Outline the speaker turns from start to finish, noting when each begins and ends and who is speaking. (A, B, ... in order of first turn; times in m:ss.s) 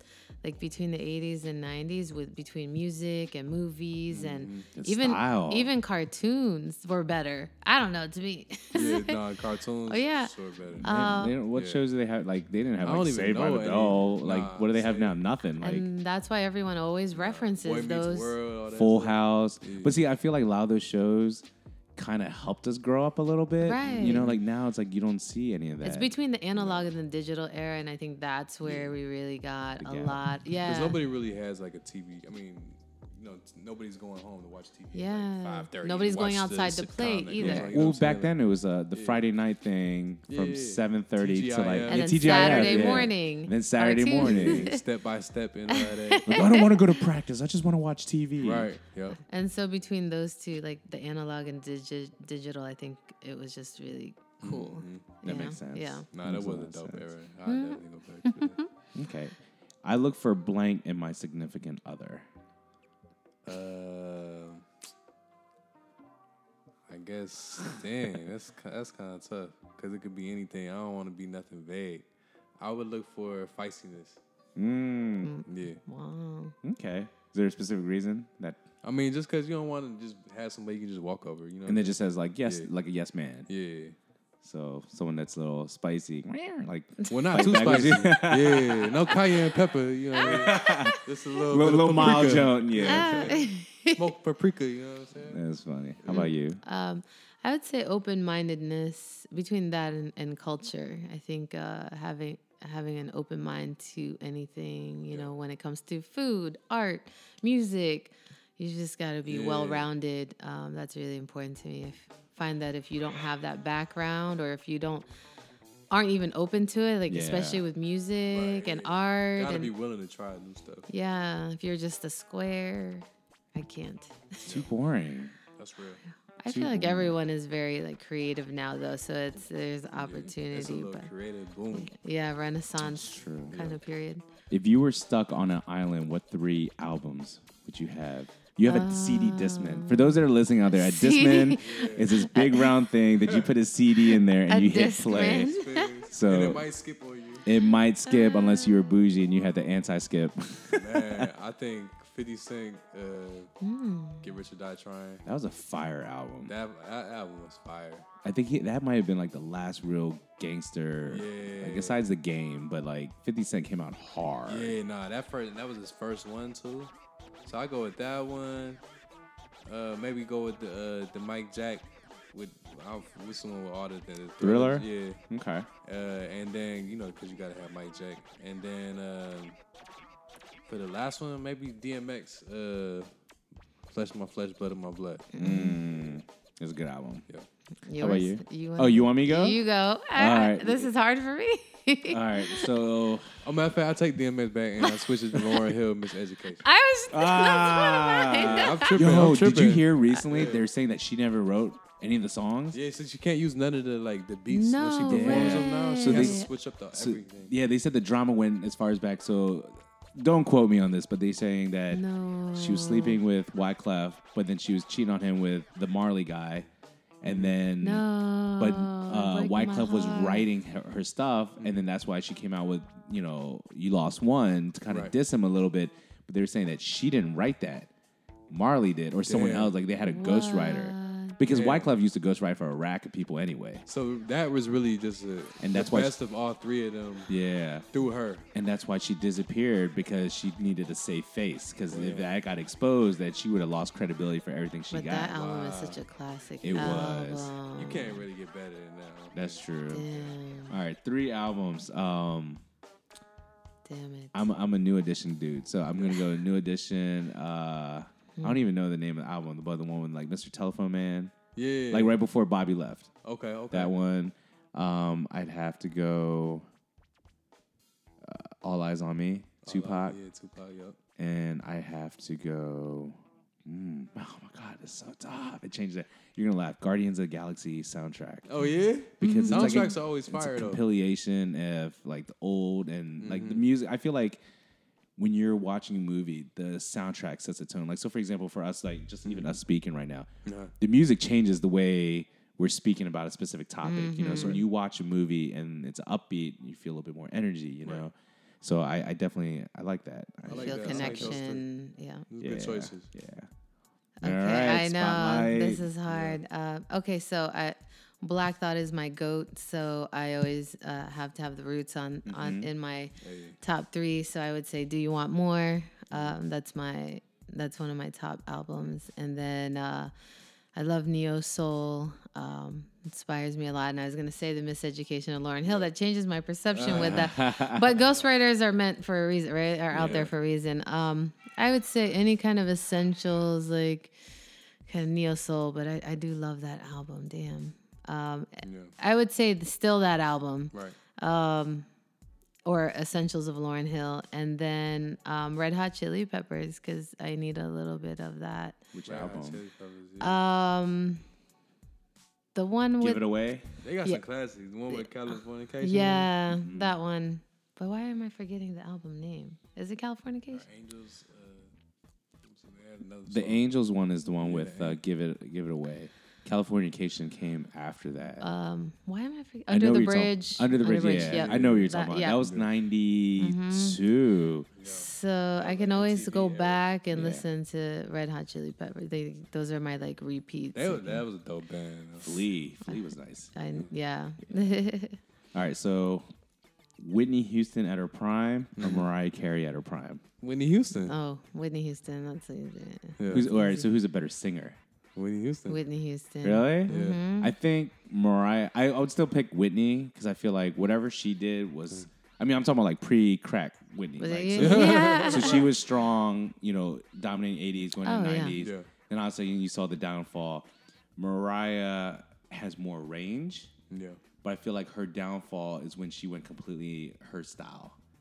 0:00.4-0:09.2 A
0:04.1-0:04.7 B
0:04.8-0:05.7 C
0:08.7-0:10.9 B
0:09.9-0:11.4 A
0:10.8-0:15.9 C
0:11.5-0:11.8 B
0:12.8-0:15.2 B
0:15.6-0:18.4 A
0:17.2-0:20.0 B
0:18.7-0:26.1 C
0:23.6-0:24.3 A
0:23.8-0:24.4 B
0:25.8-0:31.0 A
0:28.6-0:28.9 B
0:29.8-0:30.2 C
0:30.6-0:38.4 B
0:34.9-0:37.8 A
0:37.4-0:44.7 C
0:38.9-0:39.2 B
0:40.3-0:43.1 B
0:41.9-0:44.8 A
0:44.2-0:46.4 B
0:45.7-0:47.0 A
0:46.3-0:48.7 C
0:48.4-0:49.2 B
0:49.3-0:56.1 A
0:54.4-0:55.0 B
0:55.2-0:57.1 C
0:56.1-0:58.6 B
0:57.5-0:58.7 A
0:58.9-1:02.3 C
1:03.5-1:04.7 B
1:06.9-1:12.1 B
1:12.6-1:14.2 B
1:14.6-1:15.3 C
1:15.2-1:16.6 A
1:15.5-1:15.8 B
1:16.6-1:18.6 C
1:18.8-1:22.7 B
1:21.7-1:23.5 C
1:23.5-1:24.0 B
1:24.4-1:29.0 C
1:27.1-1:35.4 B
1:30.2-1:33.3 C
1:30.7-1:30.9 A
1:32.8-1:34.0 A
1:35.3-1:36.6 C
1:36.1-1:55.1 A
1:49.3-1:49.9 B
1:55.9-1:59.7 A
1:57.1-1:57.6 C
1:58.3-2:00.9 B
2:00.9-2:04.4 A
2:04.4-2:04.7 B
2:04.5-2:05.4 C
2:05.6-2:06.0 B
2:06.4-2:11.1 A
2:06.5-2:07.2 C
2:10.0-2:11.9 B
2:11.7-2:14.2 A
2:12.8-2:13.6 C
2:13.5-2:13.8 B
2:14.5-2:25.6 C
2:18.6-2:22.8 A
2:21.6-2:22.1 B
2:23.2-2:23.5 B
2:24.5-2:25.9 A
2:25.1-2:27.5 B
2:26.1-2:26.6 C
2:27.4-2:31.3 C
2:28.1-2:28.8 A
2:30.7-2:33.5 B
2:33.6-2:34.3 A
2:34.2-2:35.2 B
2:35.2-2:36.5 C
2:36.5-2:38.1 B
2:38.2-2:44.8 C
2:41.0-2:42.0 B
2:44.5-2:46.9 B
2:47.5-2:48.8 B
2:49.6-2:55.2 B
2:54.4-2:55.7 C
2:55.8-2:59.6 B
3:00.7-3:03.1 B
3:03.9-3:05.3 B
3:05.3-3:05.8 A
3:05.4-3:07.2 C
3:07.8-3:12.7 A
3:08.0-3:09.6 C
3:10.1-3:10.9 C
3:12.1-3:13.3 C
3:13.4-3:16.6 B
3:16.6-3:19.2 A
3:17.1-3:22.8 C
3:18.4-3:20.6 B
3:22.7-3:27.5 B
3:24.5-3:26.5 A
3:25.1-3:32.0 C
3:31.9-3:33.2 A
3:32.6-3:36.7 C
3:37.2-3:38.0 C
3:37.2-3:37.6 B
3:37.8-3:40.5 A
3:38.6-3:47.9 C
3:44.9-3:45.1 B
3:48.5-3:53.8 C
3:49.2-3:49.7 B
3:50.0-3:51.4 A
3:51.5-3:51.9 B
3:53.9-3:57.3 B
3:55.6-3:56.2 C
3:57.3-3:57.9 C
3:57.9-3:58.5 B
3:58.5-4:05.4 C
4:01.9-4:02.3 B
4:04.9-4:08.2 A
4:05.3-4:06.0 B
4:06.6-4:07.5 C
4:07.8-4:10.3 B
4:09.3-4:10.1 C
4:09.9-4:10.8 A
4:10.7-4:12.6 C
4:13.8-4:14.4 A
4:14.3-4:21.3 C
4:18.4-4:18.6 A
4:21.6-4:22.2 B
4:21.9-4:23.1 C
4:23.2-4:23.9 B
4:23.7-4:26.7 C
4:28.2-4:30.2 C
4:29.6-4:31.0 B
4:31.2-4:38.5 C
4:38.5-4:40.8 B
4:39.2-4:44.4 C
4:39.2-4:40.0 A
4:43.2-4:43.7 B
4:45.2-4:50.3 C
4:49.2-4:49.6 B
4:50.4-4:50.7 B
4:50.8-5:01.4 C
4:53.8-4:54.6 A
4:54.3-4:54.6 B
5:00.5-5:01.6 B
5:00.5-5:02.3 A
5:02.3-5:03.1 B
5:02.4-5:03.5 C
5:04.2-5:20.1 A
5:04.2-5:05.9 C
5:06.1-5:06.4 B
5:12.3-5:12.7 C
5:13.2-5:13.6 B
5:20.8-5:34.2 A
5:25.6-5:25.9 B
5:26.7-5:27.3 B
5:26.9-5:27.9 C
5:29.9-5:30.3 B
5:30.0-5:30.3 C
5:34.9-5:41.9 A
5:38.6-5:38.9 B
5:42.7-5:48.8 A
5:48.9-5:49.6 C
5:49.1-5:50.4 B
5:50.2-5:51.2 A
5:52.6-5:53.3 A
5:53.0-5:53.7 C
5:53.8-5:56.3 B
5:55.8-6:00.7 A
5:56.5-5:57.0 C
6:00.5-6:01.7 B
6:02.5-6:03.7 B
6:03.3-6:08.5 C
6:04.4-6:05.0 B
6:08.4-6:12.4 A
6:09.7-6:14.7 C
6:11.0-6:12.7 B
6:13.4-6:14.0 A
6:14.8-6:16.8 B
6:14.8-6:21.2 A
6:17.1-6:17.4 C
6:20.8-6:22.5 B
6:22.2-6:23.5 C
6:22.9-6:25.2 A
6:25.5-6:26.3 C
6:27.0-6:30.2 C
6:28.8-6:29.1 B
6:30.4-6:31.1 B
6:31.1-6:33.9 A
6:33.2-6:33.5 B
6:33.3-6:34.8 C
6:35.2-6:35.8 B
6:35.7-6:37.5 A
6:36.4-6:53.7 C
6:36.9-6:37.2 B
6:44.2-6:45.7 A
6:44.6-6:45.7 B
6:48.0-6:48.6 A
6:48.6-6:48.9 B
6:53.9-6:54.2 B
6:54.4-6:58.0 C